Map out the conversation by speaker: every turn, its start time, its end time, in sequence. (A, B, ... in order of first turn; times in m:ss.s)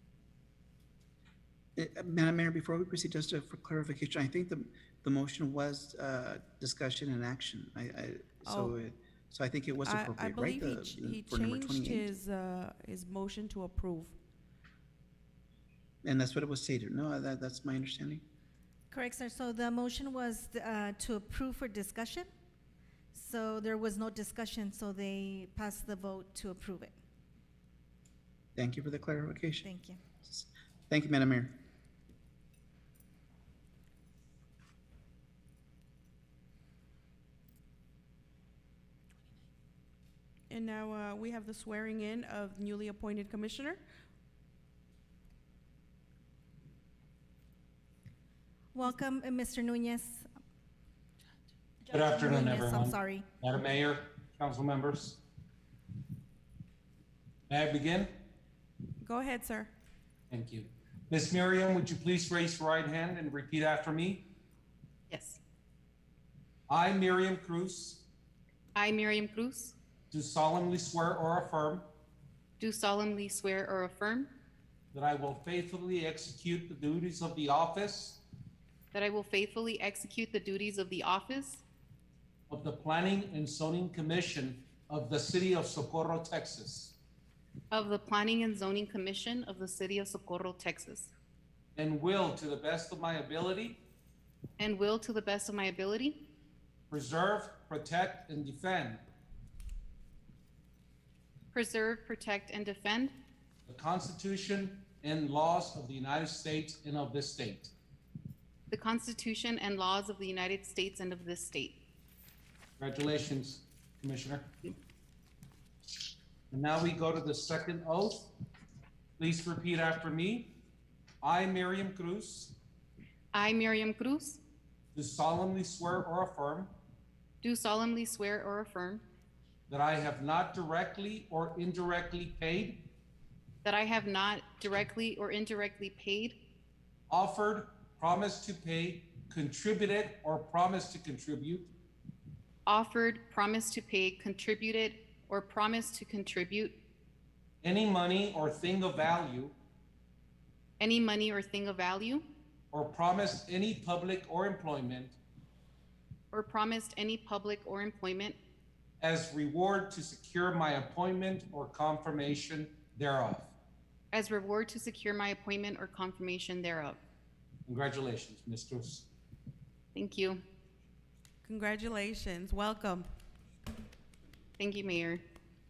0:01.8-0:12.1 A
0:08.4-0:08.7 B
0:09.8-0:14.2 B
0:16.0-0:18.2 A
0:18.9-0:22.3 C
0:23.1-0:27.0 C
0:28.6-0:29.7 A
0:29.6-0:30.0 C
0:30.2-0:31.5 A
0:40.5-0:43.8 B
0:48.7-0:50.3 C
0:51.9-0:55.2 D
0:51.9-0:53.3 C
0:57.5-0:58.1 D
0:59.0-0:59.7 B
1:00.3-1:04.2 D
1:05.1-1:05.4 E
1:06.7-1:08.1 D
1:08.8-1:09.8 E
1:10.1-1:11.9 D
1:12.6-1:14.3 E
1:14.9-1:18.2 D
1:18.9-1:21.6 E
1:22.5-1:27.0 D
1:27.7-1:31.1 E
1:31.8-1:33.8 D
1:34.6-1:36.2 E
1:36.9-1:39.0 D
1:41.5-1:43.1 E
1:43.7-1:47.7 D
1:48.7-1:51.8 E
1:52.8-1:54.5 D
1:56.5-1:58.3 D
1:59.2-2:00.5 D
2:01.2-2:02.6 D
2:03.3-2:04.4 E
2:05.0-2:06.7 D
2:07.4-2:09.0 E
2:09.7-2:12.8 D
2:13.6-2:16.4 E
2:17.1-2:21.7 D
2:22.7-2:26.7 E
2:27.6-2:29.5 D
2:30.8-2:32.2 E
2:32.7-2:35.2 D
2:36.3-2:38.4 E
2:39.0-2:43.5 D
2:44.1-2:47.0 E
2:47.7-2:49.1 D
2:49.9-2:50.4 E
2:51.4-2:53.1 B
2:54.6-2:55.2 E